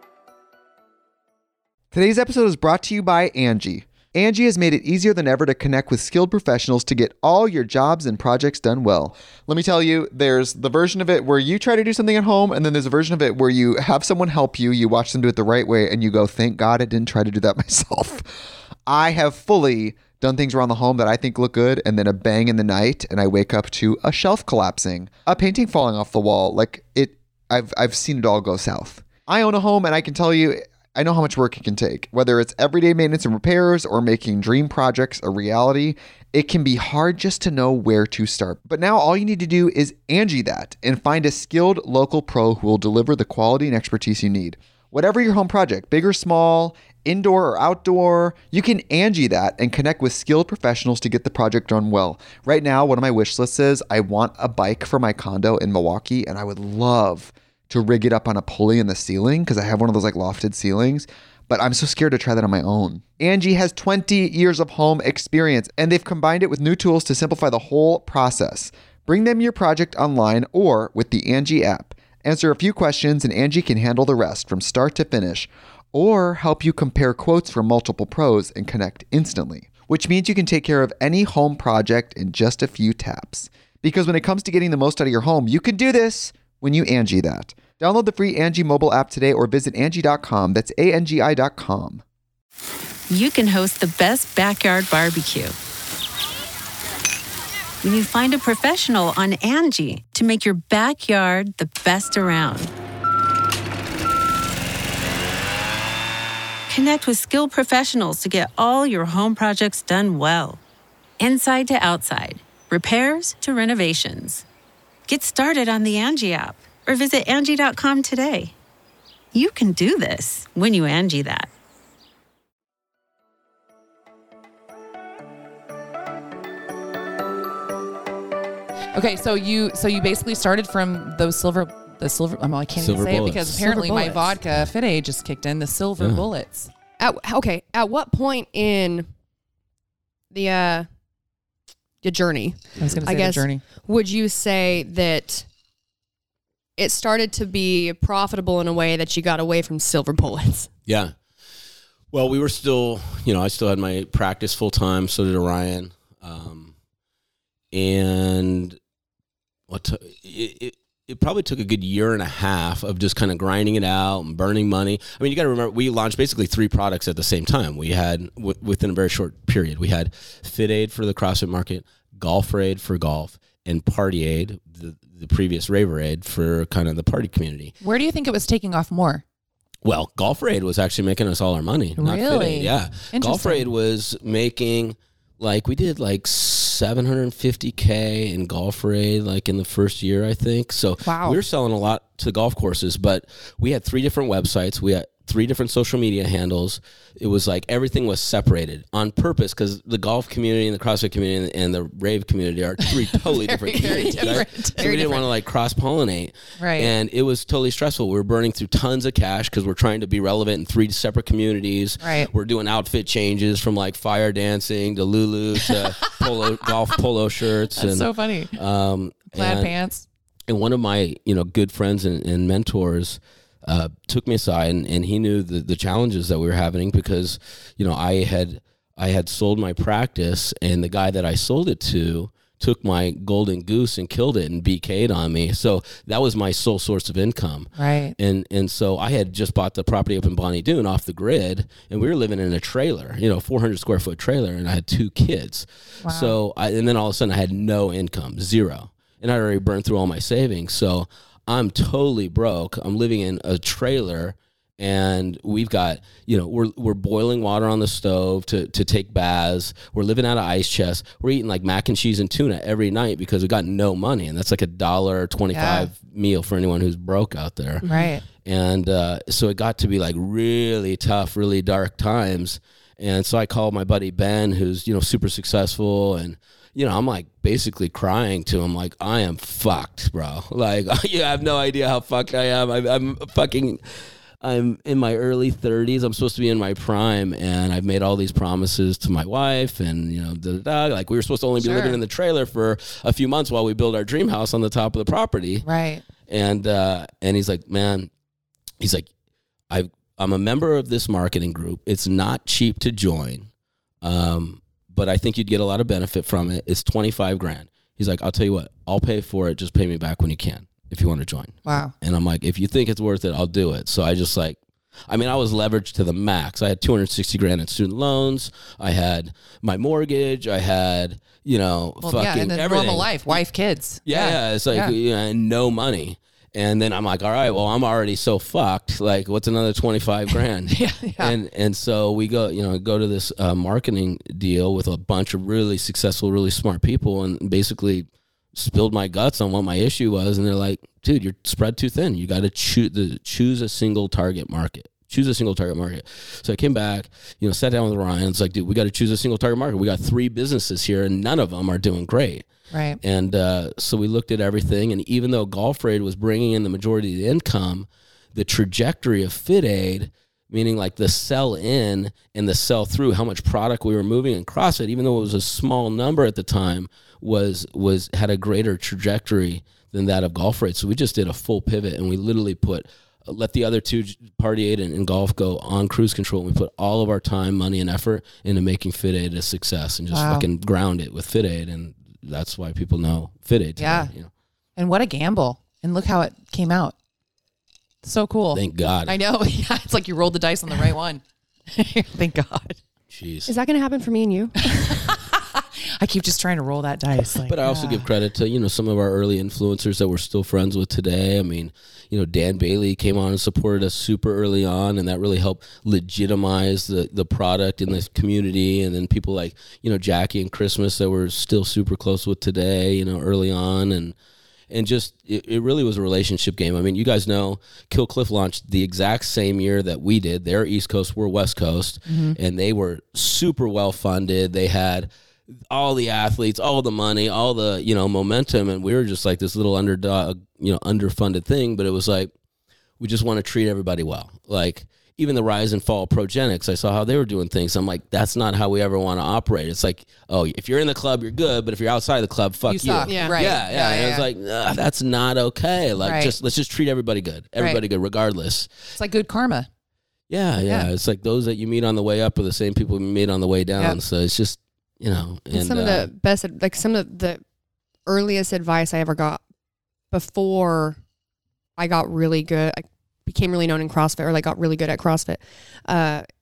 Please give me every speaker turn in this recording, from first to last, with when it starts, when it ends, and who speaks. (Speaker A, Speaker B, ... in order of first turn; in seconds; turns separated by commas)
Speaker A: 1.9-92.0, Speaker B: 93.1-95.5, Speaker B: 97.8-102.7, Speaker B: 106.7-110.6, Speaker B: 111.2-114.5, Speaker B: 115.1-118.5, Speaker B: 119.3-121.5, Speaker C: 128.9-136.7, Speaker D: 132.8-133.6, Speaker E: 133.6-134.3, Speaker D: 136.0-136.3, Speaker E: 137.0-139.1, Speaker E: 140.3-140.9, Speaker E: 142.0-145.4, Speaker C: 142.8-143.6, Speaker E: 146.8-150.7, Speaker D: 150.9-151.1, Speaker D: 152.1-156.7, Speaker D: 157.7-158.8, Speaker D: 159.7-177.7, Speaker C: 177.8-179.2, Speaker D: 179.8-219.7, Speaker C: 182.0-183.7, Speaker C: 191.0-191.4, Speaker C: 202.8-205.2, Speaker C: 206.6-206.9, Speaker C: 212.0-212.3, Speaker C: 217.8-218.6, Speaker C: 219.3-220.1, Speaker D: 220.5-267.9, Speaker C: 237.8-238.2, Speaker C: 246.0-246.3, Speaker C: 265.5-265.9, Speaker C: 267.8-268.2, Speaker D: 268.4-283.8, Speaker D: 284.4-295.7, Speaker C: 291.6-292.0, Speaker C: 295.6-296.0, Speaker D: 296.3-298.1, Speaker D: 298.8-299.1, Speaker D: 299.7-303.5, Speaker D: 304.0-314.6, Speaker C: 311.6-311.9, Speaker D: 315.1-323.4, Speaker C: 322.0-324.9, Speaker D: 324.1-352.5, Speaker C: 330.7-331.3, Speaker C: 352.7-353.0, Speaker D: 353.0-384.3, Speaker C: 380.1-380.5, Speaker C: 383.8-384.1, Speaker C: 384.8-386.9, Speaker C: 388.0-392.8, Speaker D: 388.5-389.2, Speaker D: 393.1-393.5, Speaker E: 393.5-394.7, Speaker C: 394.7-398.1, Speaker D: 397.5-414.1, Speaker D: 414.7-425.1, Speaker C: 422.1-422.4, Speaker D: 425.7-432.3, Speaker D: 433.0-448.7, Speaker C: 442.7-444.3, Speaker E: 443.1-443.4, Speaker C: 446.0-446.3, Speaker C: 448.9-449.7, Speaker D: 450.3-456.1, Speaker C: 450.6-450.9, Speaker E: 455.5-457.4, Speaker E: 458.1-459.4, Speaker E: 460.1-461.0, Speaker E: 461.8-466.3